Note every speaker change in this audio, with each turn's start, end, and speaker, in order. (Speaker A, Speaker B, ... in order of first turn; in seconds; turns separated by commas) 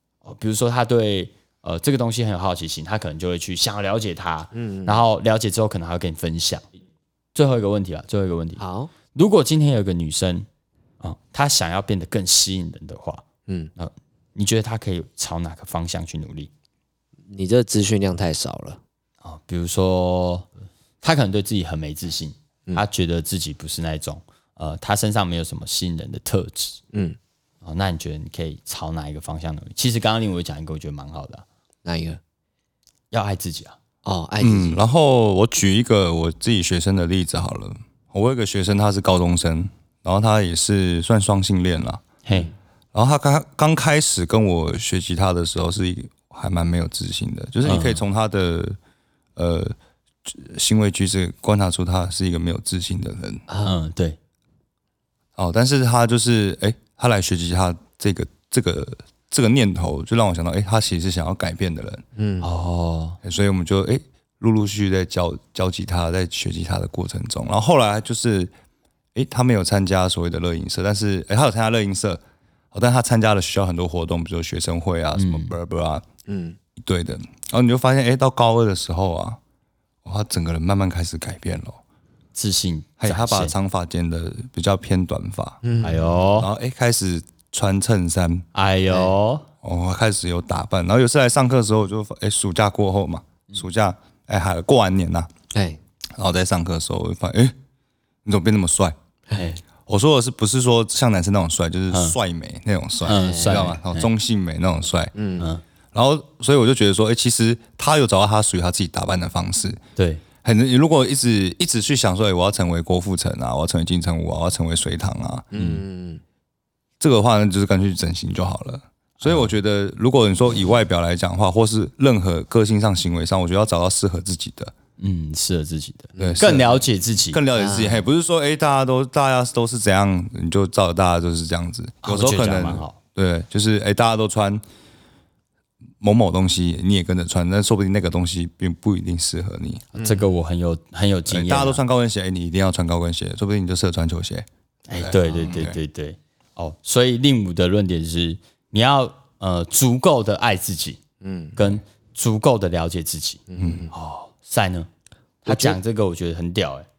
Speaker A: 0.2-6.7, Speaker B: 4.5-5.0, Speaker A: 7.3-10.5, Speaker B: 8.6-8.9, Speaker A: 11.0-13.2, Speaker A: 13.8-16.5, Speaker B: 17.3-18.8, Speaker A: 19.2-20.5, Speaker A: 21.0-26.8, Speaker B: 26.9-27.2, Speaker A: 27.6-31.4, Speaker B: 31.8-32.2, Speaker A: 33.1-33.8, Speaker B: 34.0-34.8, Speaker C: 34.4-42.0, Speaker A: 42.2-42.5, Speaker C: 42.9-48.8, Speaker A: 47.6-48.0, Speaker C: 49.4-53.5, Speaker B: 53.5-53.8, Speaker A: 53.6-54.2, Speaker C: 55.4-62.0, Speaker B: 62.1-62.5, Speaker A: 62.4-63.2, Speaker C: 63.2-68.5, Speaker C: 69.1-72.2, Speaker C: 72.7-76.0, Speaker A: 75.1-75.5, Speaker B: 76.2-76.6, Speaker C: 76.8-79.4, Speaker C: 80.0-81.8, Speaker A: 82.3-83.5, Speaker C: 83.0-85.6, Speaker B: 85.6-86.1, Speaker A: 85.8-86.5, Speaker C: 86.4-88.5, Speaker A: 88.5-89.5, Speaker C: 89.6-95.3, Speaker B: 95.5-95.8, Speaker C: 96.2-97.5, Speaker C: 98.2-99.0, Speaker A: 99.3-99.6, Speaker C: 99.8-105.1, Speaker A: 101.9-102.2, Speaker A: 103.0-104.1, Speaker B: 103.1-103.7, Speaker B: 105.1-105.5, Speaker C: 105.9-109.8, Speaker A: 110.0-110.2, Speaker C: 110.4-115.5, Speaker B: 115.5-116.2, Speaker A: 115.5-115.8, Speaker C: 117.0-124.7, Speaker A: 125.0-127.4, Speaker B: 126.2-126.5, Speaker C: 126.2-126.8, Speaker C: 127.3-134.6, Speaker B: 127.5-128.0, Speaker A: 132.0-133.0, Speaker C: 136.0-139.9, Speaker B: 139.9-140.3, Speaker A: 140.0-141.8, Speaker C: 141.3-145.8, Speaker A: 144.9-151.0, Speaker B: 151.2-151.8, Speaker A: 151.6-154.9, Speaker B: 153.5-153.9, Speaker C: 153.6-153.9, Speaker A: 155.4-156.9, Speaker B: 155.5-155.8